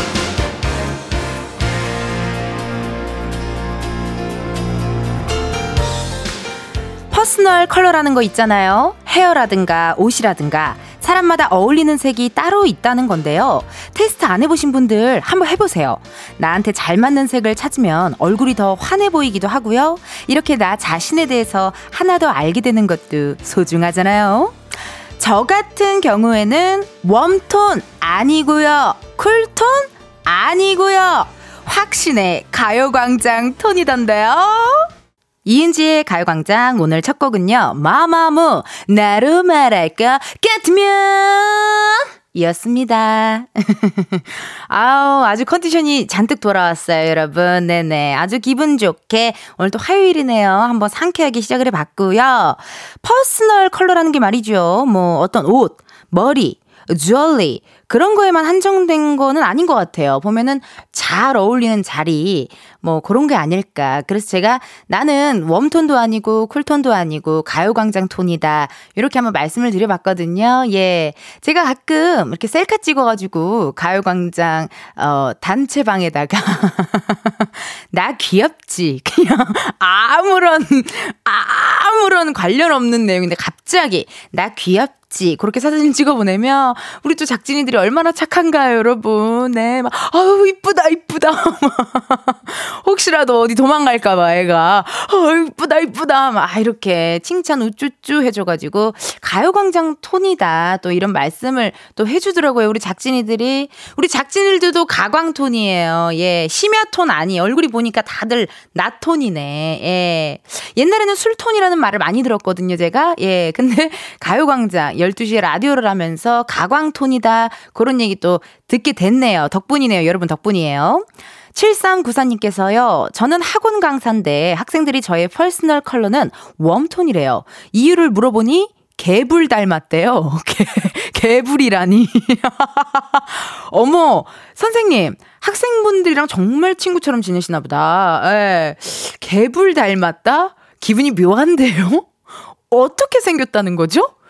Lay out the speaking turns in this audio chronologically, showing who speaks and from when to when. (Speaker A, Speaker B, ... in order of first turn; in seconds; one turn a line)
Speaker A: 7.1-24.6
Speaker A: 25.2-34.9
Speaker A: 35.5-142.1
Speaker A: 142.7-144.1